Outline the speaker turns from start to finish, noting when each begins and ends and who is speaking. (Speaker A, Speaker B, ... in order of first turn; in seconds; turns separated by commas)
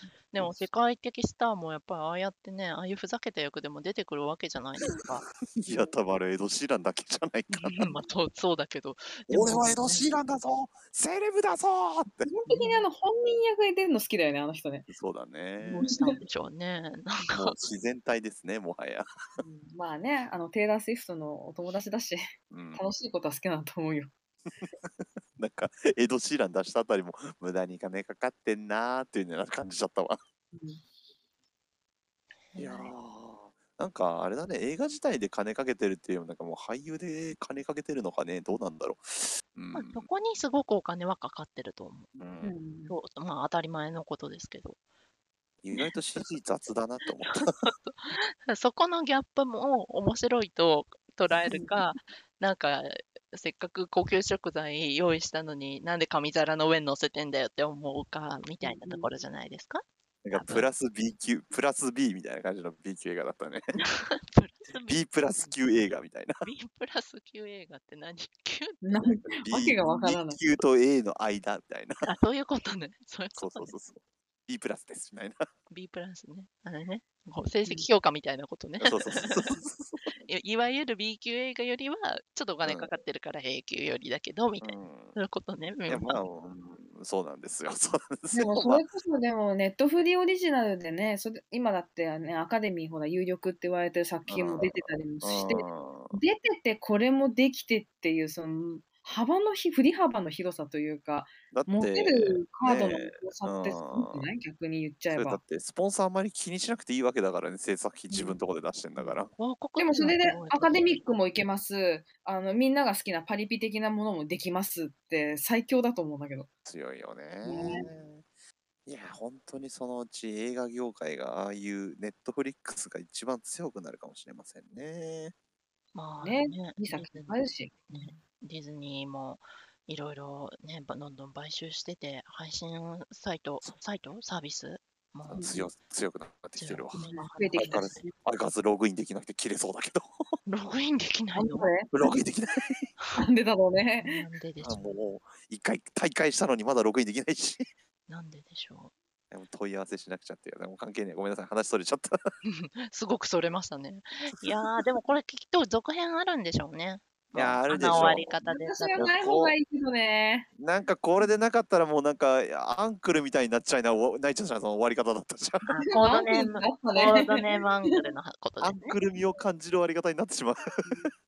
Speaker A: 0.3-5.3, Speaker B: 5.6-7.9, Speaker A: 7.5-10.1, Speaker B: 9.3-12.3, Speaker C: 12.2-14.9, Speaker A: 12.5-12.8, Speaker B: 14.9-16.0, Speaker C: 15.6-16.2, Speaker A: 15.9-17.5, Speaker B: 17.3-19.1, Speaker C: 19.4-22.2, Speaker B: 22.5-22.8, Speaker C: 22.8-24.1, Speaker B: 24.6-30.2, Speaker C: 30.5-30.8, Speaker A: 32.5-32.9, Speaker B: 32.6-40.1, Speaker A: 39.7-42.2, Speaker B: 42.2-42.5, Speaker C: 42.4-43.0, Speaker A: 42.9-44.8, Speaker B: 45.6-47.5, Speaker A: 47.2-60.7, Speaker C: 58.6-59.1, Speaker B: 60.2-63.7, Speaker A: 63.8-65.0, Speaker B: 64.9-66.4, Speaker A: 66.4-69.2, Speaker C: 68.8-70.4, Speaker B: 69.5-72.0, Speaker A: 72.0-73.7, Speaker B: 73.4-75.5, Speaker A: 75.7-79.5, Speaker B: 78.8-80.0, Speaker A: 80.2-86.2, Speaker B: 82.7-82.9, Speaker B: 84.6-85.2, Speaker B: 85.9-88.8, Speaker C: 88.3-105.4, Speaker B: 94.3-96.2, Speaker B: 101.5-104.2, Speaker B: 105.1-109.3, Speaker C: 108.1-108.4, Speaker A: 109.3-111.0, Speaker C: 109.8-116.5, Speaker B: 116.7-118.2, Speaker C: 117.4-117.8, Speaker B: 118.9-125.3, Speaker A: 125.9-135.5, Speaker C: 126.2-128.2, Speaker C: 135.3-135.7, Speaker B: 135.4-137.0, Speaker A: 136.6-138.1, Speaker C: 136.9-138.1, Speaker B: 137.6-140.1, Speaker A: 140.5-141.7, Speaker C: 141.3-141.9, Speaker B: 141.9-142.9, Speaker C: 143.2-144.2, Speaker A: 144.0-144.9, Speaker B: 144.6-147.7, Speaker A: 148.1-148.9, Speaker B: 149.3-152.2, Speaker A: 152.4-159.1, Speaker B: 154.4-154.7, Speaker B: 157.3-158.4, Speaker C: 158.4-160.5, Speaker B: 159.0-159.6, Speaker B: 160.6-165.7, Speaker A: 165.7-169.0, Speaker C: 165.9-168.0, Speaker B: 168.6-171.1